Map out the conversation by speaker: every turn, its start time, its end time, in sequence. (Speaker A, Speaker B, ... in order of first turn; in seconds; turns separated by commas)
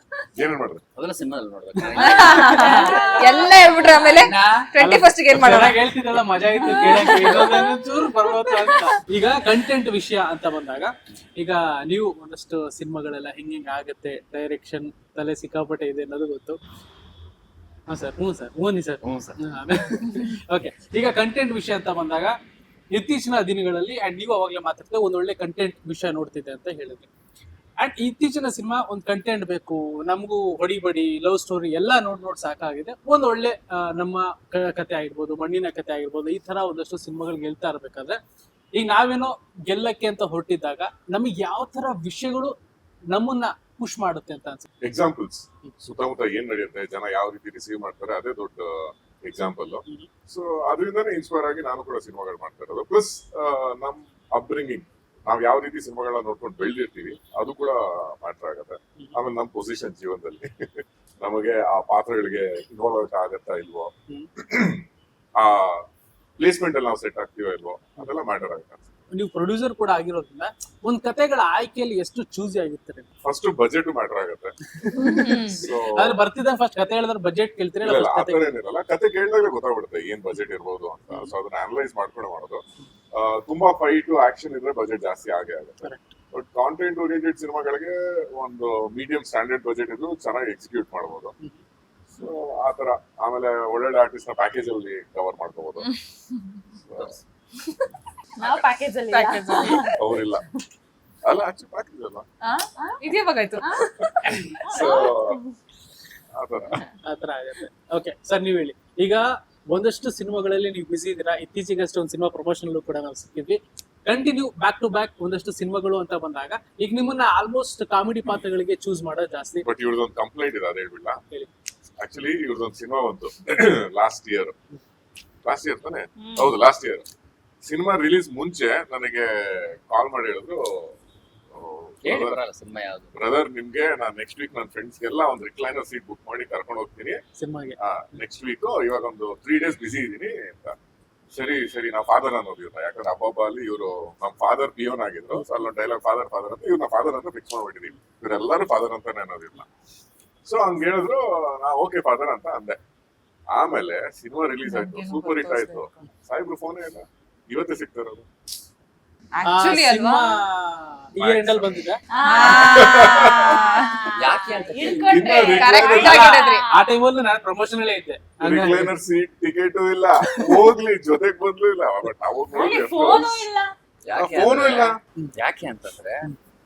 Speaker A: 0.3-0.8, Speaker B: 1.0-4.7, Speaker C: 2.0-5.8, Speaker D: 2.0-4.2, Speaker E: 4.8-16.6, Speaker C: 6.5-8.9, Speaker D: 6.7-7.7, Speaker E: 17.9-22.3, Speaker B: 19.0-19.4, Speaker E: 22.9-27.1, Speaker E: 27.8-38.2, Speaker E: 38.7-42.5, Speaker E: 43.1-44.7, Speaker A: 44.8-64.8, Speaker A: 65.4-65.8, Speaker A: 66.4-68.8, Speaker E: 69.1-73.1, Speaker A: 73.2-74.5, Speaker E: 74.9-78.5, Speaker C: 75.0-75.7, Speaker A: 75.5-76.2, Speaker A: 77.8-82.6, Speaker A: 83.1-91.3, Speaker E: 85.8-86.1, Speaker A: 92.2-95.9, Speaker A: 96.8-97.2, Speaker B: 96.9-97.2, Speaker D: 98.4-100.0, Speaker C: 99.1-99.9, Speaker A: 100.0-100.4, Speaker A: 101.2-102.2, Speaker C: 102.4-104.9, Speaker D: 103.6-103.8, Speaker D: 104.7-105.4, Speaker A: 104.7-105.4, Speaker A: 106.3-106.8, Speaker E: 107.0-119.6, Speaker A: 119.6-121.2, Speaker A: 122.0-124.5, Speaker A: 125.4-127.0, Speaker D: 126.2-126.5, Speaker A: 127.6-130.9, Speaker A: 131.5-132.4, Speaker B: 132.0-133.2, Speaker A: 133.1-137.2, Speaker E: 137.4-137.8, Speaker A: 137.8-140.8, Speaker A: 141.3-149.7, Speaker E: 145.3-145.7, Speaker A: 150.4-152.8, Speaker A: 153.5-158.3, Speaker C: 154.6-156.1, Speaker C: 159.3-160.2, Speaker E: 159.4-162.0, Speaker A: 161.2-163.6, Speaker D: 162.1-166.9, Speaker C: 162.2-164.1, Speaker B: 164.2-165.5, Speaker A: 164.9-166.3, Speaker C: 165.4-166.7, Speaker E: 165.9-168.9, Speaker A: 168.4-173.4, Speaker E: 170.3-170.6, Speaker D: 172.5-173.7, Speaker B: 174.0-176.3, Speaker A: 174.1-175.0